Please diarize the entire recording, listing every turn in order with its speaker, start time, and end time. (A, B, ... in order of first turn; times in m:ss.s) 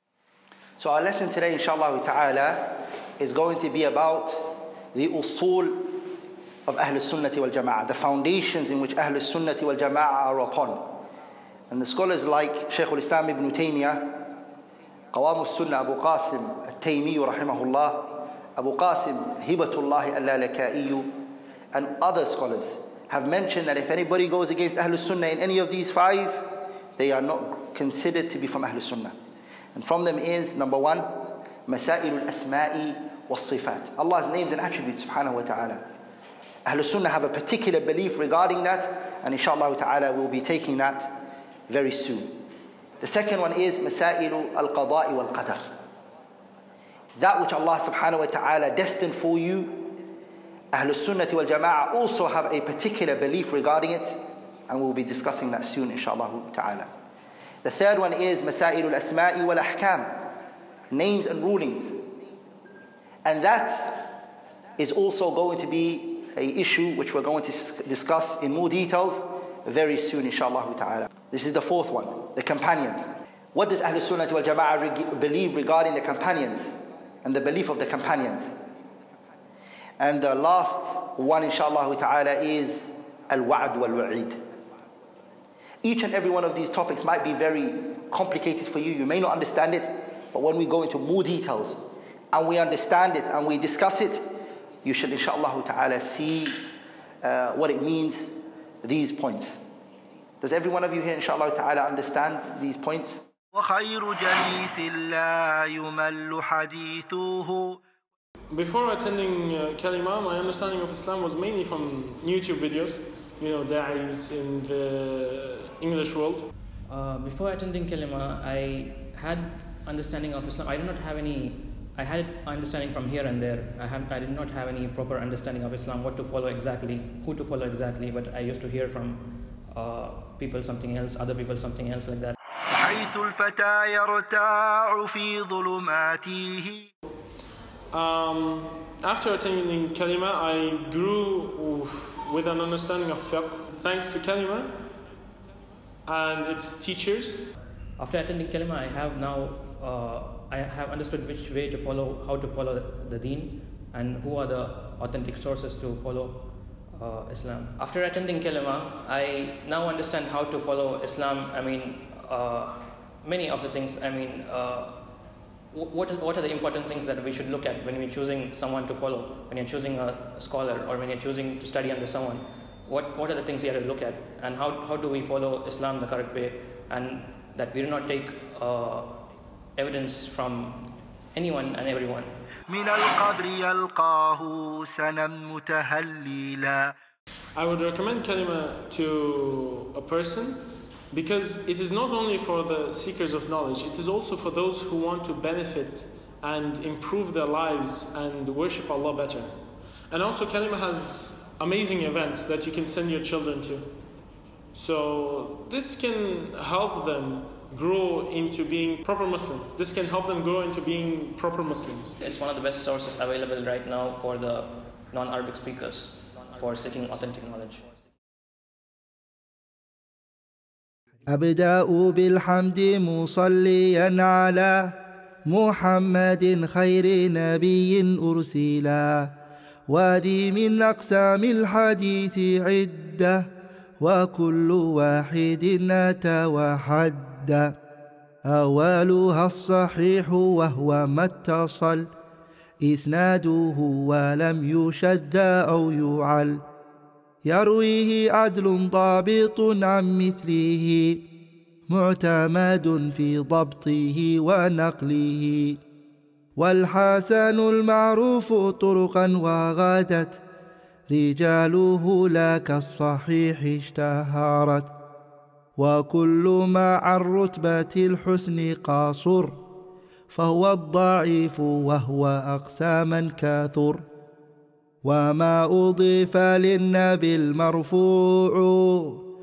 0:00.8-0:06.0 A
0:06.7-0:11.0 A
0:11.7-0:14.2 A
0:15.1-0:29.2 A
0:29.7-0:35.9 A
0:36.7-0:41.1 A
0:41.7-0:42.4 A
0:43.0-0:45.6 A
0:47.2-0:49.9 A
0:50.7-0:56.9 A
0:57.6-1:00.3 A
1:00.9-1:02.0 A
1:03.2-1:04.2 A
1:04.8-1:18.5 A
1:20.0-1:24.4 A
1:25.8-1:31.8 A
1:32.3-1:34.2 A
1:34.8-1:36.7 A
1:37.2-1:39.6 A
1:40.4-1:43.2 A
1:43.5-1:47.8 B
1:48.5-1:56.5 C
1:56.9-2:12.4 D
2:12.7-2:16.9 B
2:17.9-2:24.8 C
2:26.1-2:27.5 C
2:28.0-2:45.1 D
2:45.7-3:02.3 D
3:02.7-3:07.0 B
3:07.6-3:19.6 C
3:20.1-3:23.9 C
3:24.7-3:32.2 C
3:32.2-3:37.9 D
3:41.3-3:45.0 B
3:45.5-3:49.3 B
3:49.9-3:53.5 B
3:54.0-3:57.8 B
3:58.5-4:02.1 B
4:02.8-4:06.6 B
4:07.4-4:11.2 B
4:11.9-4:15.8 B
4:16.6-4:20.4 B
4:21.1-4:24.9 B
4:25.8-4:29.6 B
4:30.3-4:34.0 B
4:35.0-4:39.2 B